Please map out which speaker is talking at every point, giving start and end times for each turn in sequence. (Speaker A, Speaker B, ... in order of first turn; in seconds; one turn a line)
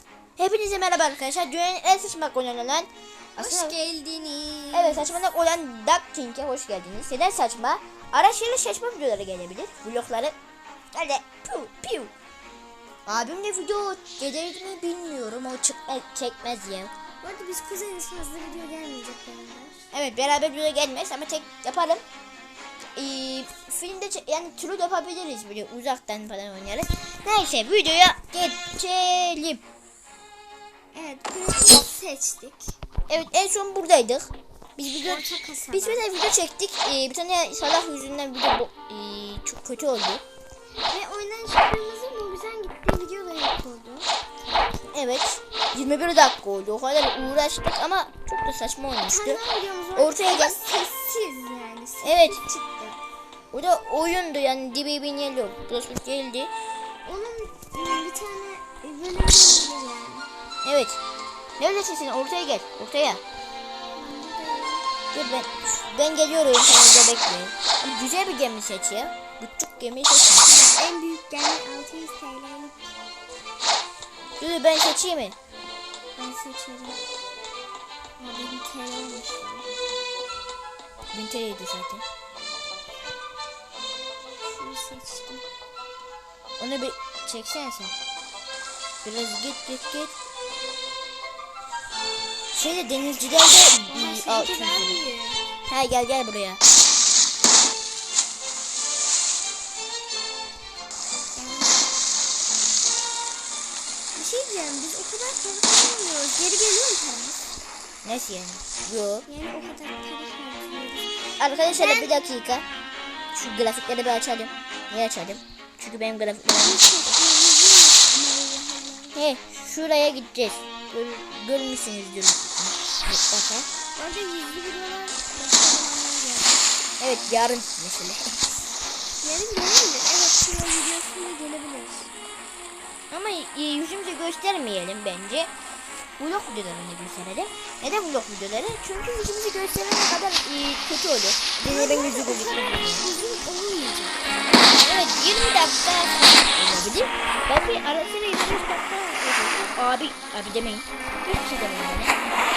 Speaker A: 0.4-3.8
Speaker B: 3.4-5.1
Speaker A: 4.7-10.3
Speaker A: 10.9-12.1
Speaker A: 13.1-16.9
Speaker B: 17.2-19.9
Speaker A: 19.9-22.0
Speaker A: 22.9-29.6
Speaker B: 30.9-32.8
Speaker A: 33.1-40.2
Speaker B: 35.0-36.0
Speaker B: 40.9-44.7
Speaker A: 44.9-49.4
Speaker B: 49.1-53.0
Speaker A: 50.0-50.6
Speaker A: 52.0-52.4
Speaker A: 53.5-56.5
Speaker B: 57.0-60.3
Speaker A: 60.6-61.0
Speaker A: 61.6-63.2
Speaker B: 63.9-64.9
Speaker A: 65.1-70.5
Speaker B: 70.5-72.9
Speaker A: 74.4-75.4
Speaker B: 76.2-77.0
Speaker B: 78.2-79.7
Speaker A: 81.1-82.0
Speaker B: 84.4-85.5
Speaker A: 86.6-88.0
Speaker A: 89.0-90.1
Speaker A: 92.5-95.0
Speaker B: 93.8-95.4
Speaker A: 95.7-96.6
Speaker B: 101.3-101.9
Speaker B: 104.1-107.4
Speaker A: 108.0-109.2
Speaker B: 109.3-112.2
Speaker A: 111.4-112.7
Speaker A: 113.3-117.2
Speaker B: 116.5-119.2
Speaker A: 119.2-123.7
Speaker B: 124.0-126.7
Speaker A: 127.0-128.4
Speaker B: 129.2-132.1
Speaker A: 133.1-135.5
Speaker A: 136.2-143.0
Speaker B: 141.7-144.2
Speaker A: 144.8-152.2